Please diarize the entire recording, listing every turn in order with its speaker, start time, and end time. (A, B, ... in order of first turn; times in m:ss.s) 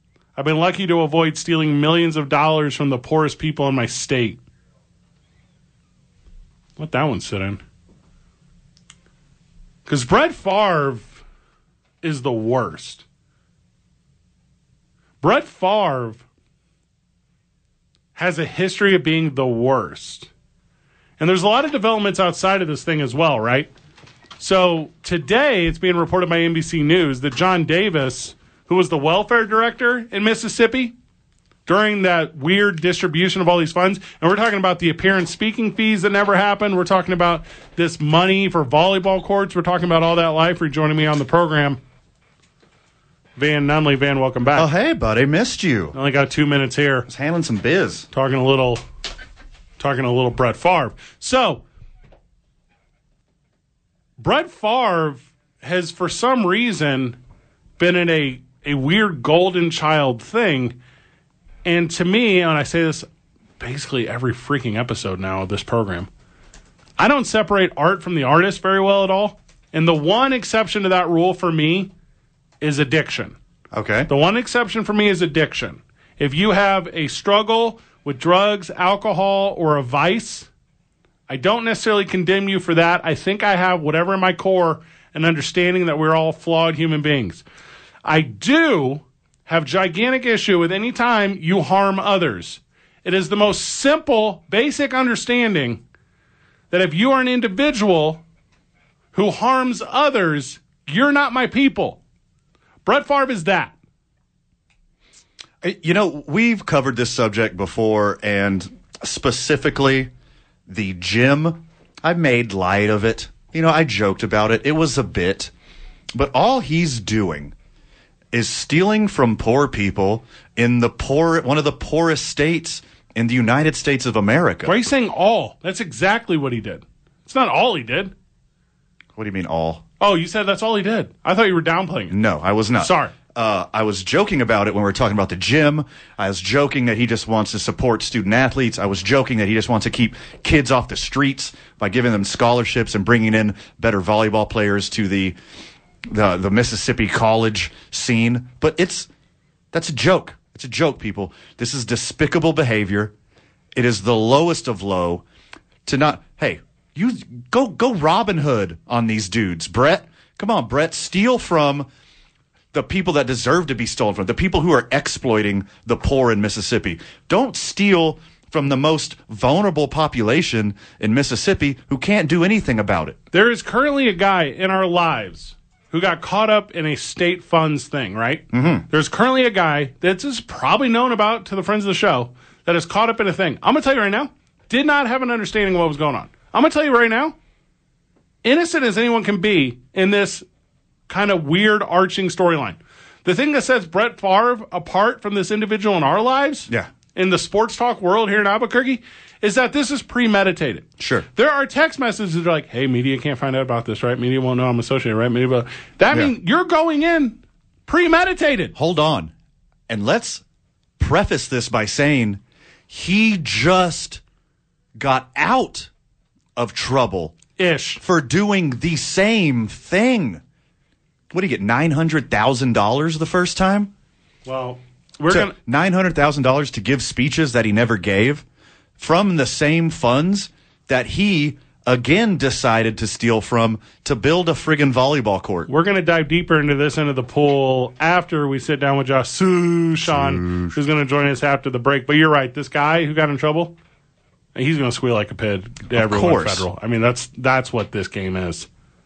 0:00.4-0:04.4 A
0:06.8-0:07.6 A
0:09.9-0:11.2 A
0:12.0-0:13.0 A
0:15.2-0:16.2 A
0:18.2-0:20.3 A
0:21.2-0:23.7 A
0:24.4-0:31.0 A
0:31.7-0:41.8 A
0:43.4-0:44.7 A
0:44.6-0:46.0 B
0:45.9-0:47.1 A
0:47.1-0:48.1 B
0:48.1-0:48.8 A
0:49.8-0:51.6 A
0:54.2-0:57.2 A
0:57.8-1:00.8 A
1:01.6-1:03.1 A
1:03.6-1:06.1 A
1:07.0-1:11.9 A
1:12.6-1:13.4 A
1:13.7-1:14.1 B
1:14.1-1:20.5 A
1:21.3-1:27.4 A
1:28.0-1:35.8 A
1:36.7-1:38.2 A
1:39.1-1:42.0 A
1:42.8-1:43.7 A
1:45.6-1:50.1 B
1:50.7-1:55.5 B
1:56.1-1:57.5 B
1:58.3-2:04.8 B
2:04.6-2:08.1 A
2:09.2-2:09.8 B
2:10.0-2:12.2 A
2:12.1-2:25.4 B
2:12.8-2:13.1 A
2:26.1-2:29.1 B
2:29.7-2:33.1 B
2:33.8-2:35.2 B
2:35.9-2:41.9 B
2:42.7-2:53.2 B
2:53.3-3:07.4 A
2:58.5-2:58.9 B
3:08.4-3:10.4 A
3:11.1-3:28.7 A
3:21.0-3:21.3 B
3:28.8-3:29.3 B
3:29.9-3:30.4 B
3:31.0-3:34.2 B
3:35.0-3:35.9 B
3:36.6-3:37.4 B
3:37.6-3:38.0 A
3:38.0-3:40.4 B
3:41.3-3:43.9 B
3:44.5-3:45.5 A
3:45.3-3:48.4 B
3:49.0-3:55.7 B
3:55.7-4:03.8 A
4:00.1-4:00.8 B
4:04.6-4:08.7 A
4:05.9-4:06.7 B